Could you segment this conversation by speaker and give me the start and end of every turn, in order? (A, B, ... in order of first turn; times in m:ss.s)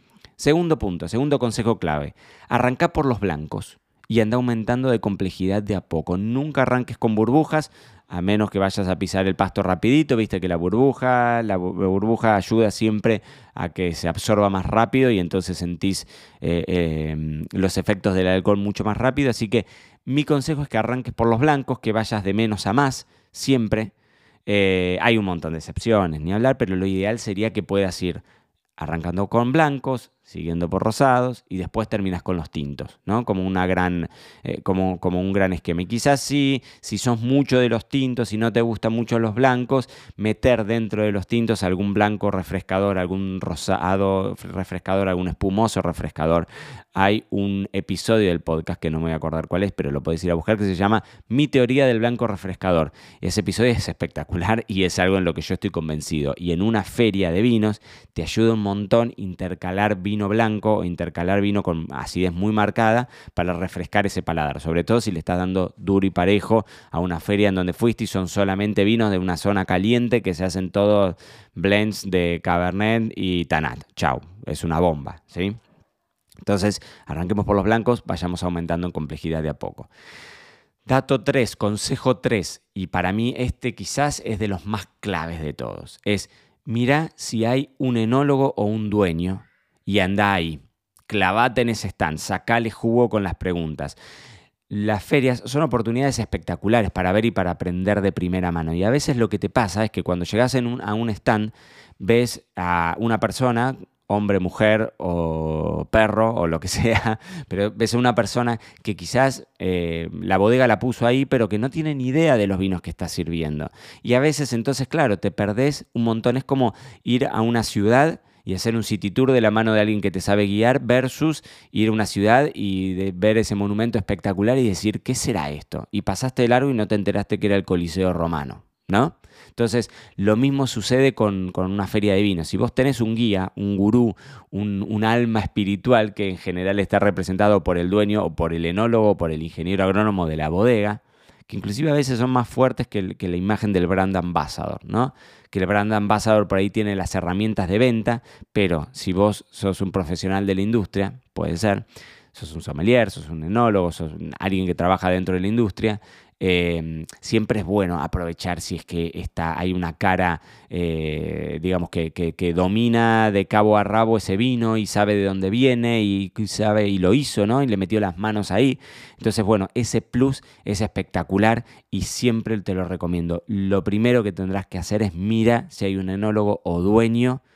0:00.4-0:23.9 A
0:24.5-0:28.2 A
0:28.8-1:15.6 A
1:16.4-1:19.9 A
1:20.9-1:34.0 A
1:34.7-2:57.4 A